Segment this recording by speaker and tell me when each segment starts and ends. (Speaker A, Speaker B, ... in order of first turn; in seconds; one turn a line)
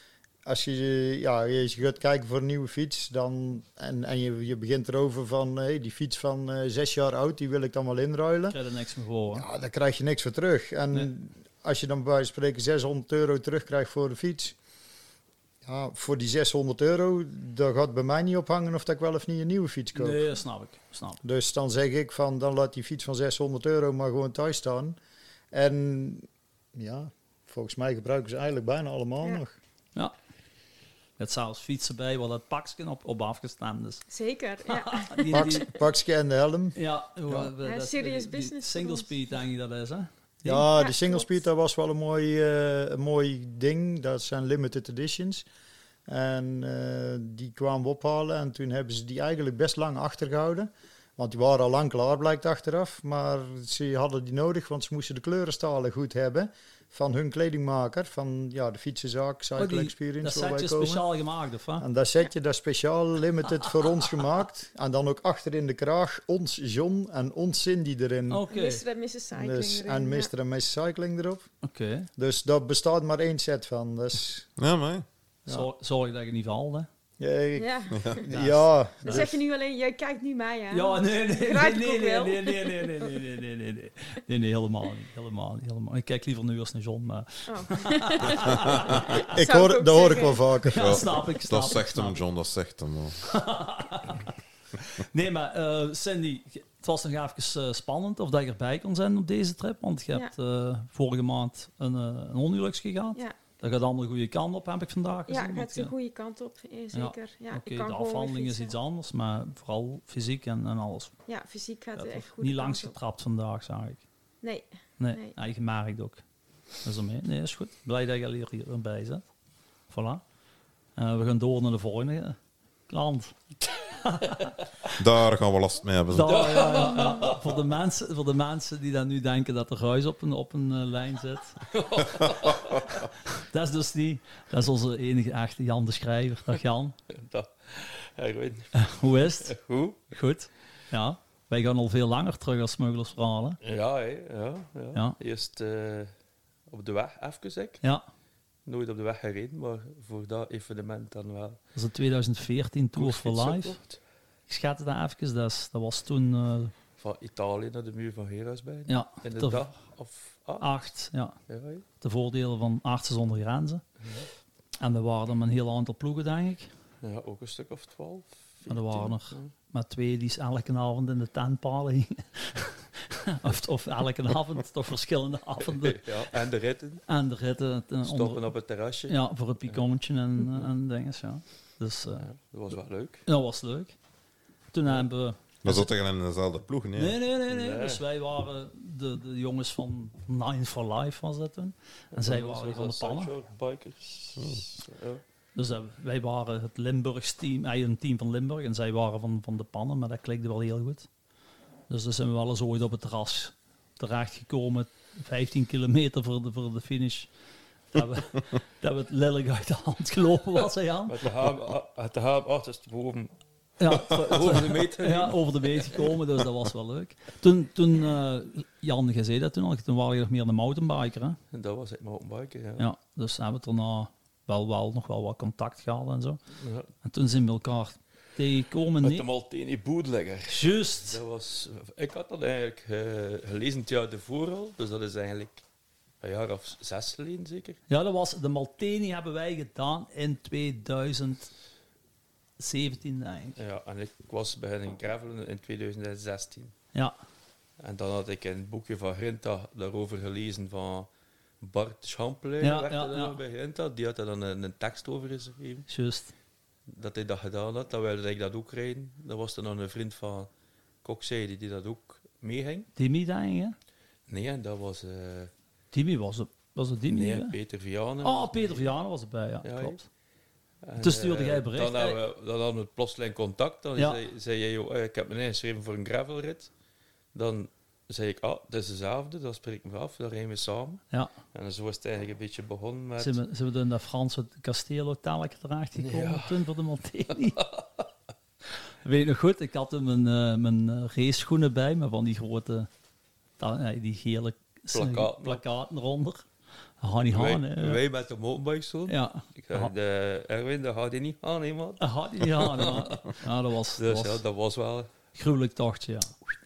Speaker A: 0.5-8.6
Speaker B: 8.5-9.5
Speaker A: 9.3-14.6
Speaker A: 15.6-20.2
Speaker B: 19.9-21.2
Speaker A: 21.2-25.0
Speaker A: 25.5-29.5
Speaker B: 31.2-34.0
Speaker C: 34.1-35.7
Speaker B: 34.7-35.7
Speaker A: 35.3-36.8
Speaker B: 36.7-40.7
Speaker C: 37.6-39.1
Speaker A: 40.4-45.5
Speaker C: 40.7-41.3
Speaker A: 46.1-61.0
Speaker B: 59.5-61.8
Speaker A: 61.8-68.4
Speaker B: 68.3-68.8
Speaker C: 68.5-70.3
Speaker A: 69.3-71.5
Speaker B: 71.6-72.1
Speaker A: 72.2-74.5
Speaker D: 74.6-75.0
Speaker B: 75.5-76.9
Speaker A: 77.2-79.3
Speaker C: 77.5-78.3
Speaker D: 77.9-78.2
Speaker B: 78.3-79.3
Speaker C: 79.0-83.1
Speaker B: 80.7-89.1
Speaker C: 87.5-90.5
Speaker A: 89.2-91.0
Speaker B: 90.7-92.2
Speaker D: 90.7-93.2
Speaker B: 93.3-105.9
Speaker C: 105.3-108.7
Speaker B: 106.9-111.1
Speaker C: 111.3-113.0
Speaker B: 111.9-114.0
Speaker C: 114.4-115.4
Speaker B: 115.0-116.2
Speaker B: 116.8-119.3
Speaker B: 119.9-120.2
Speaker B: 121.0-122.4
Speaker B: 122.9-123.3
Speaker B: 123.8-124.5
Speaker D: 125.0-126.5
Speaker B: 126.1-131.6
Speaker E: 126.3-127.4
Speaker E: 131.7-133.0
Speaker B: 133.3-136.9
Speaker E: 137.1-140.1
Speaker B: 138.7-139.5
Speaker B: 140.1-143.6
Speaker E: 143.6-146.1
Speaker E: 146.7-147.8
Speaker E: 148.6-151.6
Speaker B: 151.7-153.8
Speaker E: 152.9-154.0
Speaker B: 154.5-156.7
Speaker E: 157.0-160.9
Speaker B: 158.9-159.6
Speaker B: 160.6-161.3
Speaker E: 161.5-161.8
Speaker B: 162.0-163.8
Speaker B: 164.8-166.7
Speaker E: 167.0-169.5
Speaker B: 168.7-176.1
Speaker E: 175.7-177.0
Speaker B: 177.1-182.3
Speaker E: 178.0-179.8
Speaker E: 182.2-183.2
Speaker B: 183.2-183.9
Speaker B: 184.7-185.9
Speaker D: 185.6-187.2
Speaker B: 186.9-193.3
Speaker E: 187.5-188.0
Speaker E: 192.1-195.2
Speaker D: 194.4-194.6
Speaker B: 195.5-201.1
Speaker B: 201.9-207.3
Speaker B: 207.9-211.2
Speaker E: 211.1-213.3
Speaker B: 213.8-221.4
Speaker E: 213.9-215.4
Speaker E: 221.5-222.9
Speaker B: 222.8-226.4
Speaker E: 226.6-226.9
Speaker B: 227.0-229.3
Speaker E: 229.0-235.6
Speaker B: 230.5-231.2
Speaker E: 236.2-237.8
Speaker B: 237.9-241.5
Speaker B: 242.6-243.6
Speaker E: 243.6-246.7
Speaker E: 247.8-251.1
Speaker E: 251.6-255.8
Speaker B: 252.6-253.4
Speaker B: 255.9-256.3
Speaker E: 256.9-260.5
Speaker E: 261.0-262.9
Speaker B: 262.9-263.7
Speaker E: 264.3-265.5
Speaker B: 265.9-267.6
Speaker E: 267.1-268.9
Speaker B: 268.2-270.0
Speaker E: 269.6-270.0
Speaker E: 270.8-276.7
Speaker B: 271.0-272.2
Speaker E: 277.3-283.4
Speaker B: 283.2-287.6
Speaker E: 285.9-286.6
Speaker E: 287.4-288.0
Speaker B: 289.0-292.9
Speaker B: 293.6-296.4
Speaker E: 294.9-295.6
Speaker B: 297.0-298.0
Speaker E: 297.3-303.1
Speaker B: 299.1-299.9
Speaker B: 302.0-304.4
Speaker E: 303.9-305.1
Speaker B: 305.4-306.3